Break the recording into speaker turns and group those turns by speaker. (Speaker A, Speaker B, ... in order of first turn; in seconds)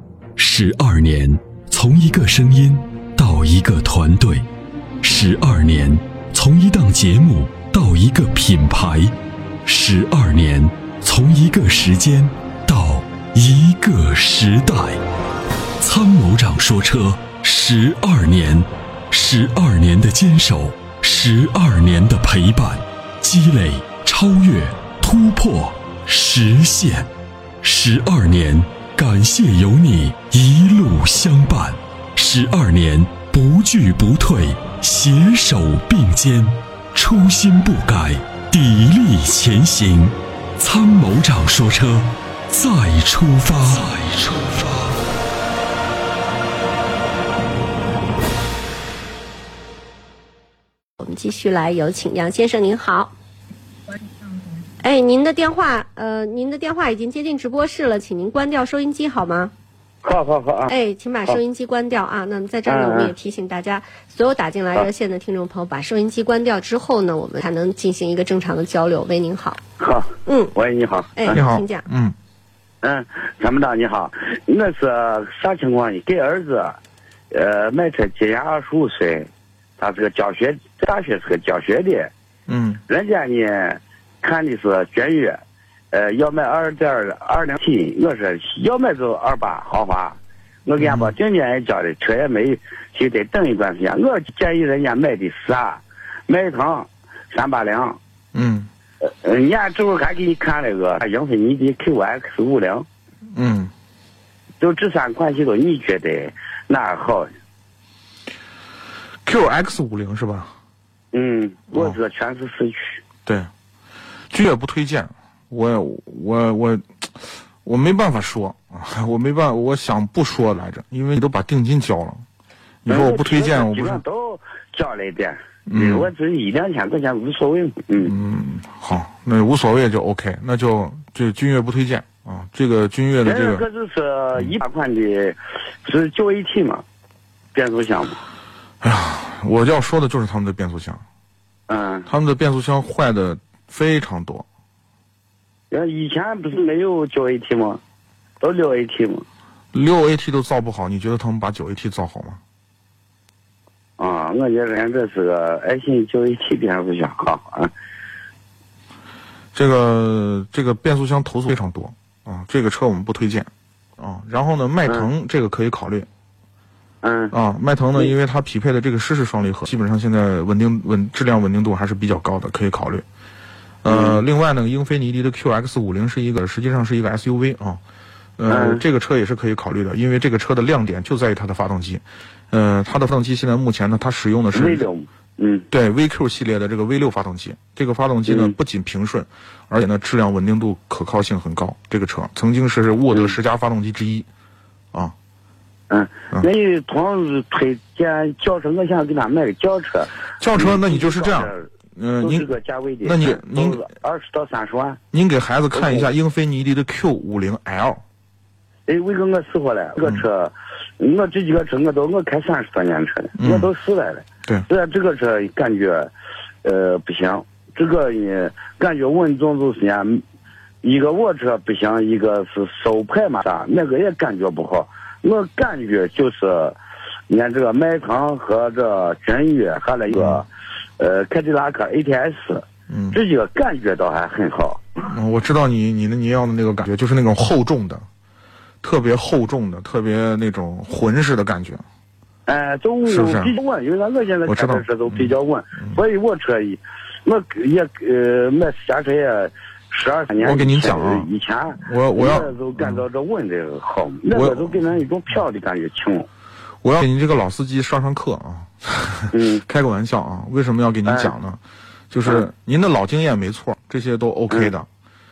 Speaker A: 0.4-4.5, 5.0-15.0, 15.8-27.1, 27.6-44.9
Speaker B: 51.0-53.1, 54.8-59.5, 60.7-69.6, 70.2-70.5, 71.2-71.8
Speaker C: 60.0-60.7, 62.7-63.1, 69.8-71.4, 72.8-76.8, 77.3-82.1, 82.9-85.4, 85.9-98.0, 99.0-102.9, 104.6-107.3, 111.1-113.0, 122.9-128.1, 133.2-136.8, 137.5-138.2, 141.7-142.1, 145.7-147.8, 148.4-149.3, 154.0-157.7, 164.8-165.1, 167.0-167.3, 173.9-174.2, 178.5-178.8, 184.5-185.7, 188.3-188.6, 193.1-193.4, 195.9-205.0, 205.7-206.1, 208.9-216.1, 216.6-220.2, 220.8-234.8, 242.5-256.3, 259.3-259.6, 261.1-261.3
Speaker D: 71.3-72.1, 82.5-82.8, 90.8-91.1, 98.3-98.7, 103.3-103.7, 109.2-110.5, 111.7-112.0, 114.3-122.2, 122.8-124.0, 125.7-126.1, 128.0-133.7, 138.8-141.0, 142.1-144.5, 149.7-152.4, 159.6-166.1, 167.3-173.0, 173.8-177.8, 178.4-184.9, 185.7-194.3, 200.4-202.5, 203.0-203.8, 205.1-208.0, 213.4-213.7, 230.1-230.4, 232.9-233.2, 235.1-238.1, 238.8-241.8, 243.1-243.5, 244.4-246.0, 250.4-253.0, 254.3-254.8, 256.8-261.6, 262.1-264.9